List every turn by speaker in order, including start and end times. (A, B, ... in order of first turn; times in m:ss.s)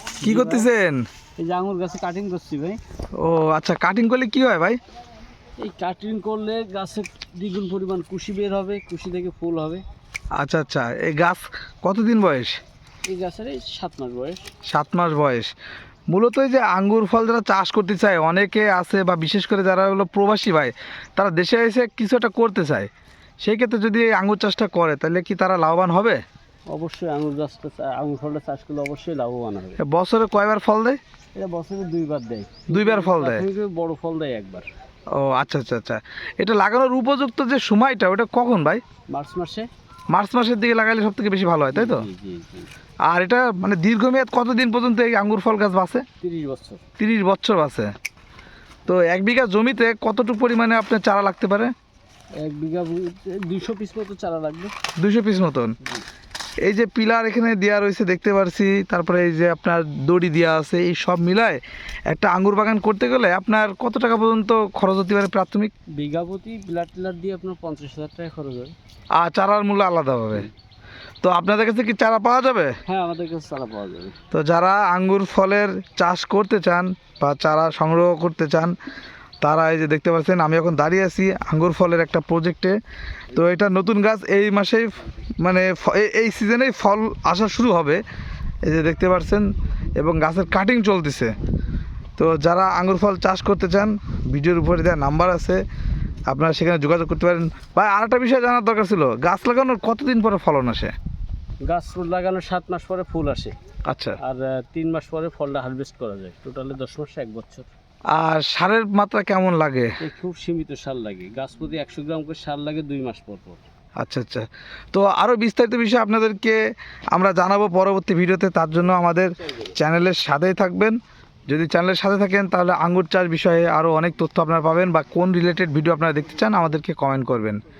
0:00.2-0:00.7 A
0:00.2-0:01.0 B
0:01.4-0:02.8 A
0:03.2-0:04.8 B
0:05.6-0:09.8 A
0:10.4-0:12.6 B
0:13.1-0:14.4 A
0:14.7-0:15.5 B
0:16.1-0:22.9 B
0:23.4-0:26.2 B
0:26.7-0:29.8 A
0:29.8-0:31.0 B
0:31.4-0:34.7 A
0:32.7-0:33.5 B
0:35.1-0:38.8 B
0:39.1-0:39.7 A
0:40.1-0:42.1 B
0:41.7-0:42.7 A
0:43.1-0:46.0 B
0:46.2-0:46.8 A
0:47.0-0:47.9 B
0:48.9-0:51.7 B
0:52.4-0:54.7 A
0:55.0-0:55.8 B
0:56.6-1:05.7 B
1:06.0-1:08.7 A
1:09.2-1:10.5 B
1:11.2-1:12.7 B
1:12.9-1:14.2 A
1:14.3-1:18.7 B
1:19.4-1:22.8 B
1:23.3-1:24.9 B
1:25.4-1:28.0 B
1:28.7-1:31.3 B
1:32.2-1:35.6 B
1:36.3-1:40.9 B
1:41.6-1:43.6 A
1:43.9-1:44.2 B
1:44.2-1:47.7 A
1:48.1-1:50.0 B
1:50.0-1:53.6 A
1:54.0-1:56.6 B
1:57.1-2:01.0 B
2:01.5-2:07.6 B